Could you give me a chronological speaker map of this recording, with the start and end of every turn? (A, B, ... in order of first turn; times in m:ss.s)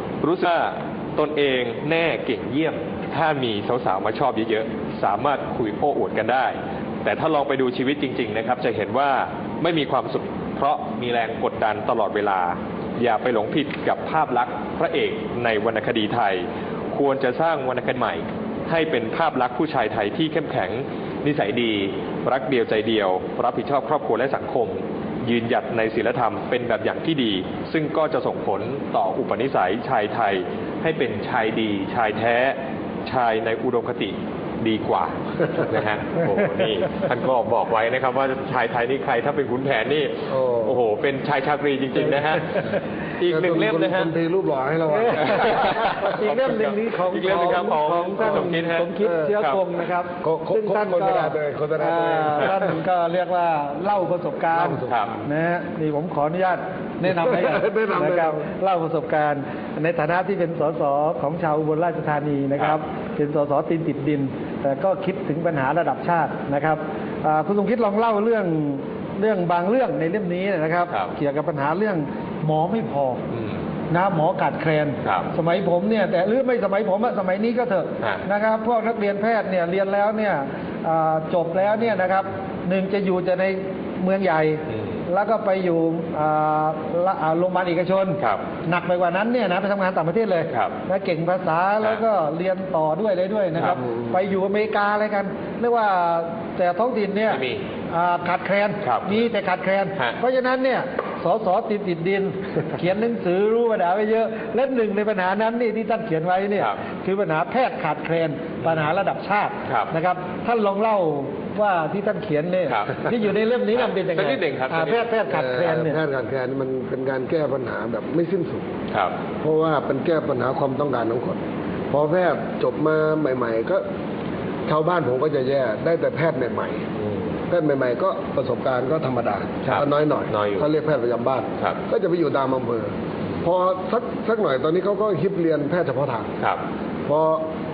0:00.2-0:44.1 A
0:40.3-0:40.8 B
0:43.2-0:46.0 B
0:44.9-1:13.2 C
0:45.2-0:49.6 A
0:49.0-0:49.3 B
0:50.2-0:52.7 B
0:54.5-0:55.0 B
0:54.8-0:55.2 A
0:57.1-0:58.4 B
1:13.3-1:13.6 A
1:13.9-1:56.0 C
1:15.0-1:15.3 A
1:37.3-1:37.6 A
1:38.8-1:39.2 A
1:48.6-1:48.9 A
1:49.7-1:49.9 A
1:52.7-1:53.0 A
1:53.7-1:55.1 A
1:55.3-1:58.7 B
1:59.4-2:01.4 B
2:01.9-2:03.8 B
2:04.7-2:06.9 B
2:07.5-2:12.9 B
2:09.6-2:10.7 A
2:13.4-2:16.3 B
2:17.1-2:17.4 B